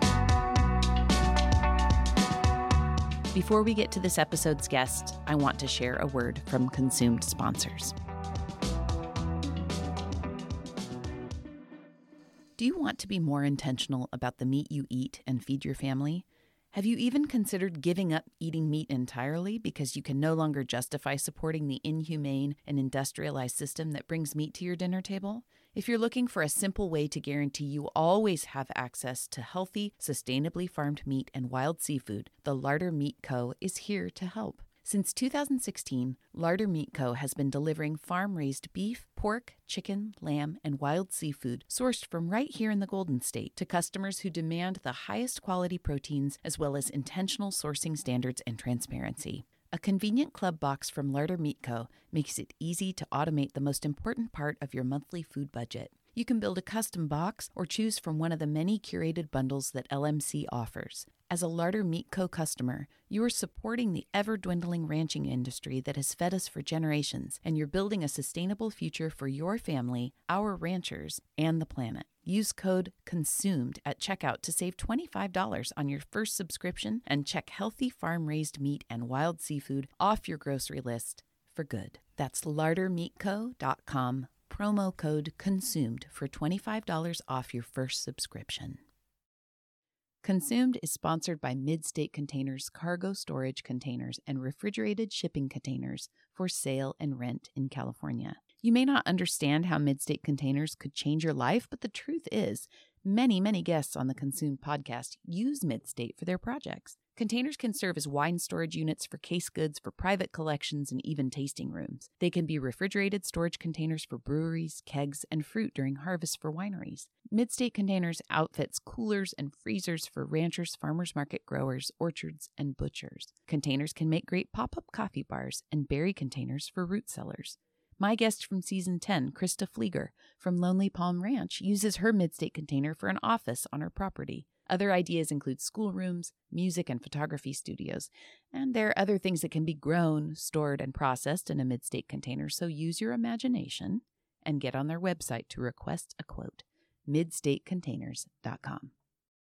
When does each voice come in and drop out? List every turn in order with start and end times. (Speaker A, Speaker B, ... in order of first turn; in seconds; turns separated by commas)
Speaker A: 3.3-7.9, Speaker A: 12.6-88.8, Speaker A: 90.2-148.9